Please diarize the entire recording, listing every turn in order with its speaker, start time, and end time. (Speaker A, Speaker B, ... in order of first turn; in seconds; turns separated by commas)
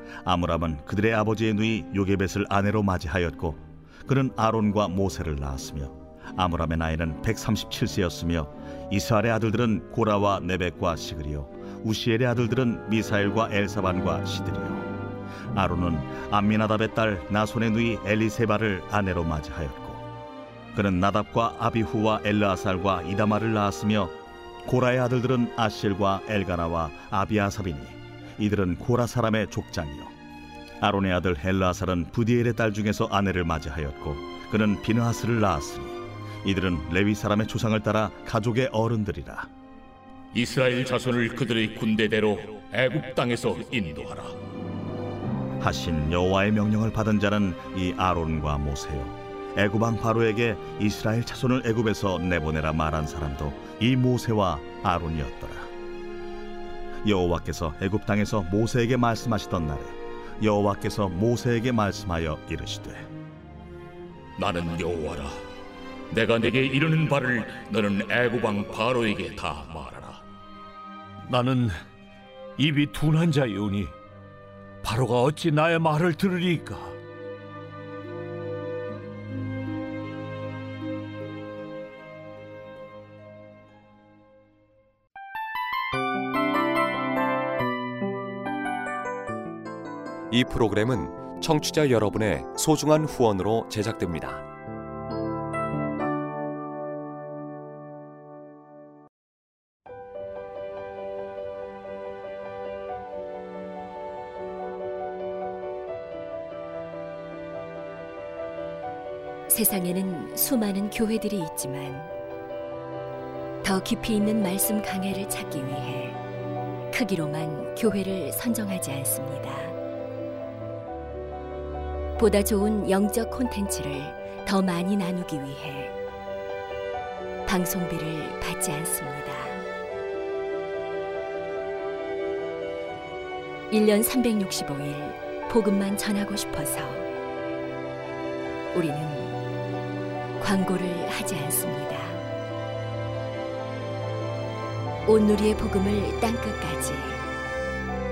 Speaker A: 0.2-14.9, Speaker A: 15.5-20.0, Speaker A: 20.7-24.1, Speaker A: 24.6-30.1, Speaker A: 30.8-39.5, Speaker B: 40.3-44.4, Speaker A: 45.6-55.7, Speaker A: 57.0-63.0, Speaker B: 64.4-65.3, Speaker B: 66.1-70.2, Speaker C: 71.2-71.8, Speaker C: 72.6-73.9, Speaker C: 74.8-77.0, Speaker D: 90.3-94.4, Speaker E: 109.5-112.0, Speaker E: 113.7-115.9, Speaker E: 117.0-119.6, Speaker E: 122.2-125.9, Speaker E: 127.5-129.5, Speaker E: 133.7-137.0, Speaker E: 138.8-139.2, Speaker E: 140.4-142.1, Speaker E: 145.1-147.1